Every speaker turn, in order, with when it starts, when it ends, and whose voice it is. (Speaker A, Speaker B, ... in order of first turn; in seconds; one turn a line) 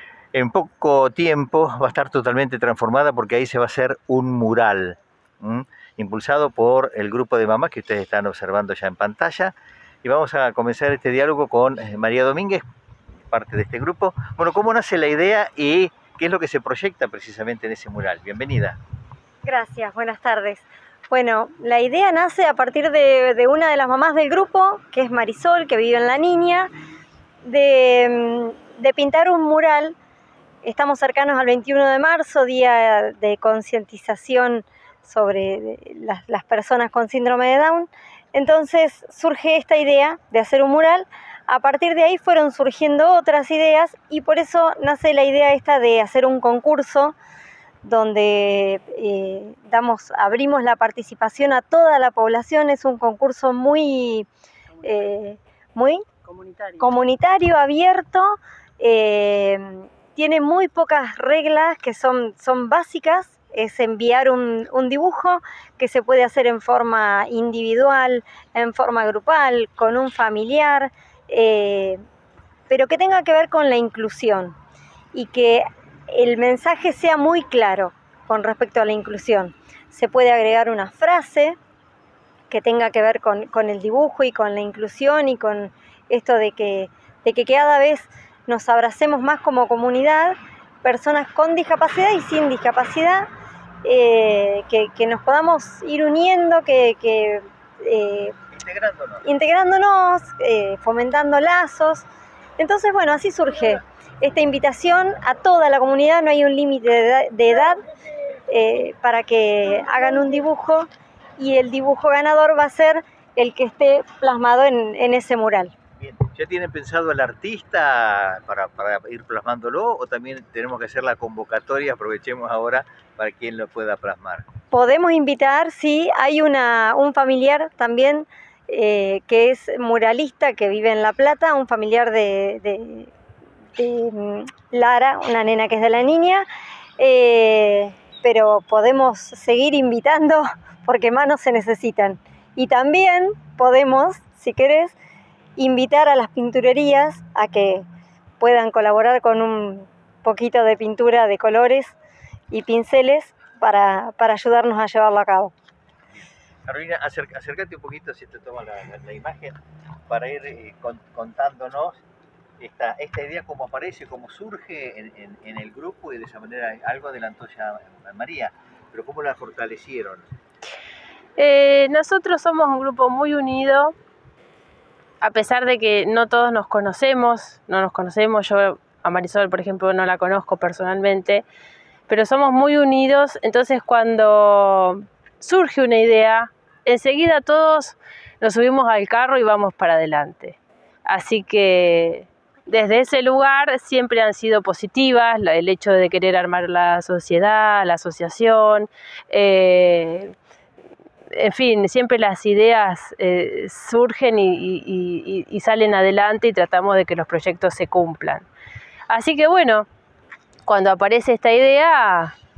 Speaker A: 0.3-9.5
Speaker A: 10.0-12.6
Speaker A: 13.3-18.8
Speaker B: 19.4-26.7
Speaker B: 27.4-29.9
Speaker B: 30.6-47.1
Speaker B: 47.8-54.3
Speaker B: 54.8-56.0
Speaker C: 56.2-56.9
Speaker B: 56.8-72.0
Speaker B: 72.7-74.5
Speaker B: 75.1-81.6
Speaker B: 82.5-93.3
Speaker B: 93.8-98.3
Speaker A: 98.5-99.2
Speaker B: 99.2-102.0
Speaker B: 102.6-107.8
Speaker B: 108.5-115.7
Speaker A: 116.0-124.5
Speaker B: 124.7-133.1
Speaker B: 133.8-136.5
Speaker B: 137.0-144.9
Speaker B: 145.6-147.8
Speaker B: 148.4-151.9
Speaker B: 152.5-155.5
Speaker A: 156.6-162.0
Speaker A: 162.6-170.2
Speaker C: 171.4-173.9
Speaker C: 175.2-181.4
Speaker C: 182.1-200.3
Speaker C: 201.3-208.4
Speaker C: 209.1-209.9
Speaker C: 210.7-212.3